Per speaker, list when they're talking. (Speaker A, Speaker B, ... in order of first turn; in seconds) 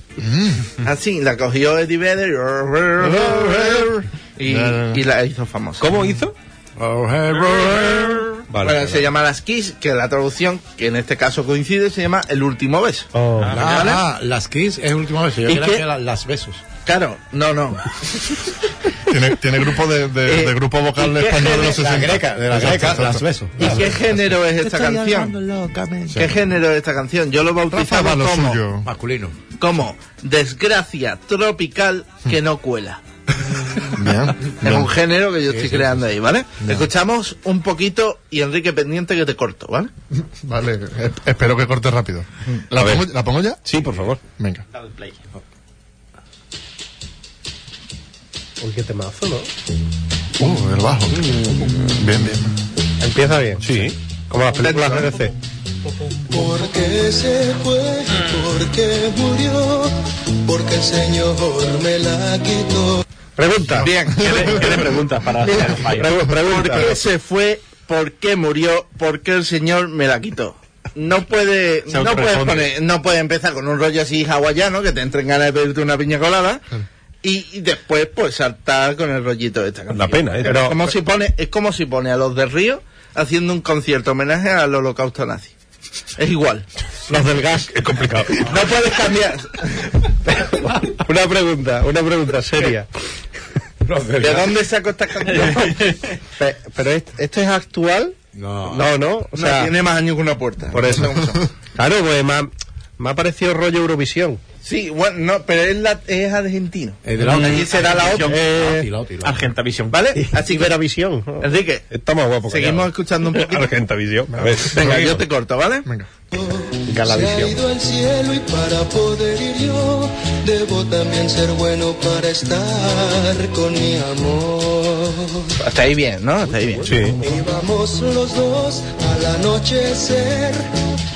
Speaker A: 0.2-0.7, 3.0-3.9, 4.5-5.0, 19.1-23.8, 27.7-28.9, 33.9-34.9, 40.4-43.6, 50.4-52.5, 63.7-64.8
Speaker B: 0.8-5.9, 8.6-14.0, 15.5-15.8, 16.8-18.5, 20.3-21.8, 23.6-25.4, 26.1-28.7, 29.6-33.0, 34.6-39.9, 54.6-55.1, 63.8-64.8, 66.4-76.7, 77.2-85.5, 86.2-86.7, 88.4-90.0, 94.2-95.9, 99.4-101.5, 104.6-108.4, 109.9-110.8, 111.4-111.9, 112.5-113.7, 114.7-115.9, 125.6-127.0
Speaker C: 5.8-6.3, 8.5-9.1, 42.8-43.0, 43.6-44.2, 53.6-54.0, 79.9-80.8, 87.7-88.6, 111.9-115.2, 126.8-127.2
Speaker D: 6.8-8.4, 13.4-16.6, 21.4-26.4, 28.8-29.4, 35.5-36.1, 93.8-94.6, 98.4-98.9, 107.0-109.5, 117.1-117.5
Speaker E: 13.1-13.5, 48.6-49.5, 53.0-53.7, 54.3-55.3, 63.4-63.9, 65.8-67.0, 80.4-80.8, 87.1-87.7, 90.4-92.9, 96.4-98.2, 98.7-99.7, 100.7-101.1, 101.8-104.4, 108.3-108.9, 110.2-111.5, 117.0-117.5
Speaker F: 13.4-13.9, 44.7-45.2, 64.2-66.2, 71.9-72.7, 95.3-96.0, 107.2-108.6, 109.2-110.1
Speaker G: 56.3-63.0, 116.3-125.5, 127.2-130.7